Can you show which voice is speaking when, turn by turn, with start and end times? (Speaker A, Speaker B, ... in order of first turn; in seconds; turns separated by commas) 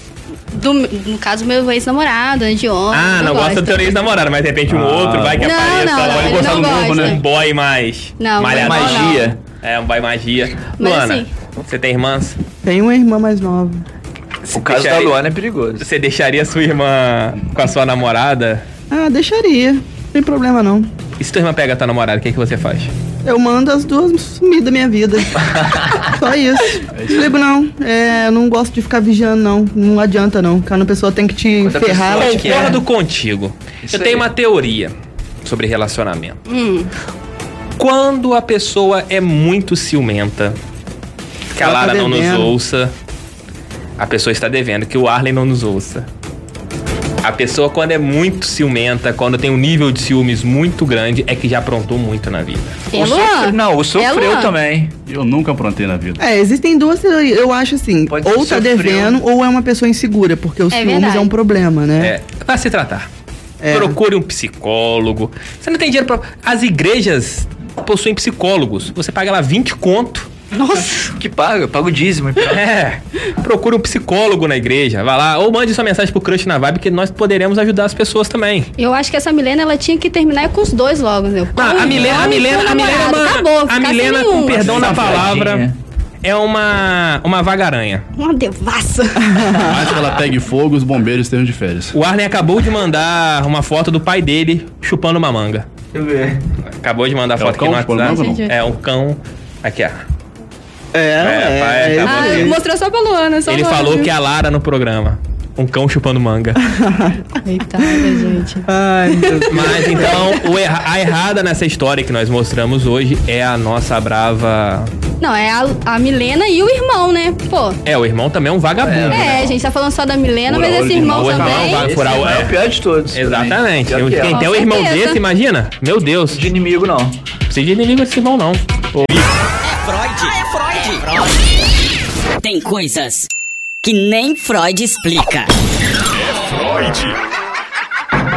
Speaker A: 0.5-3.9, Speaker B: 2.9-12.4, Speaker C: 4.7-7.2, Speaker A: 5.4-7.2, Speaker A: 8.2-9.3, Speaker D: 8.5-9.4, Speaker A: 10.8-11.3, Speaker E: 12.6-13.8, Speaker B: 14.4-15.2, Speaker D: 14.5-15.9, Speaker B: 15.8-18.6, Speaker E: 18.9-20.9, Speaker B: 21.2-22.9, Speaker E: 23.2-25.4, Speaker E: 26.0-32.8, Speaker C: 26.9-27.3, Speaker D: 31.6-32.8, Speaker B: 32.1-36.4, Speaker D: 33.8-34.3, Speaker A: 36.5-36.9, Speaker B: 37.8-40.6, Speaker B: 41.5-42.9, Speaker E: 41.6-42.5, Speaker B: 44.0-46.1, Speaker B: 47.2-52.9, Speaker A: 52.9-54.5, Speaker D: 52.9-54.9, Speaker C: 55.1-56.2, Speaker E: 56.2-62.1, Speaker D: 58.1-59.2, Speaker A: 60.7-61.3, Speaker B: 62.0-63.1, Speaker E: 63.6-64.0, Speaker B: 63.7-70.3, Speaker A: 70.5-71.1, Speaker D: 70.7-72.6, Speaker B: 72.5-78.7, Speaker A: 78.8-84.8, Speaker B: 81.6-85.7, Speaker D: 81.9-82.1, Speaker D: 84.5-85.8, Speaker B: 86.2-88.0, Speaker A: 88.2-89.5, Speaker C: 89.6-92.0, Speaker B: 91.9-95.7, Speaker D: 95.9-96.4, Speaker B: 96.7-100.0, Speaker C: 97.4-98.5, Speaker A: 98.0-98.6, Speaker E: 100.9-102.6, Speaker B: 101.2-102.6, Speaker A: 102.0-104.1, Speaker B: 103.5-106.6, Speaker E: 106.7-107.2, Speaker A: 107.4-110.3, Speaker E: 108.7-110.1, Speaker B: 109.5-114.9, Speaker A: 115.2-117.8, Speaker B: 117.8-119.5, Speaker D: 118.8-119.5, Speaker A: 119.1-121.9, Speaker D: 120.5-124.5, Speaker B: 121.0-122.6, Speaker C: 121.2-121.6, Speaker B: 123.1-126.5, Speaker A: 124.3-125.2, Speaker D: 126.3-127.2, Speaker B: 127.5-129.2, Speaker F: 129.9-131.2, Speaker F: 132.4-133.3, Speaker F: 133.8-135.5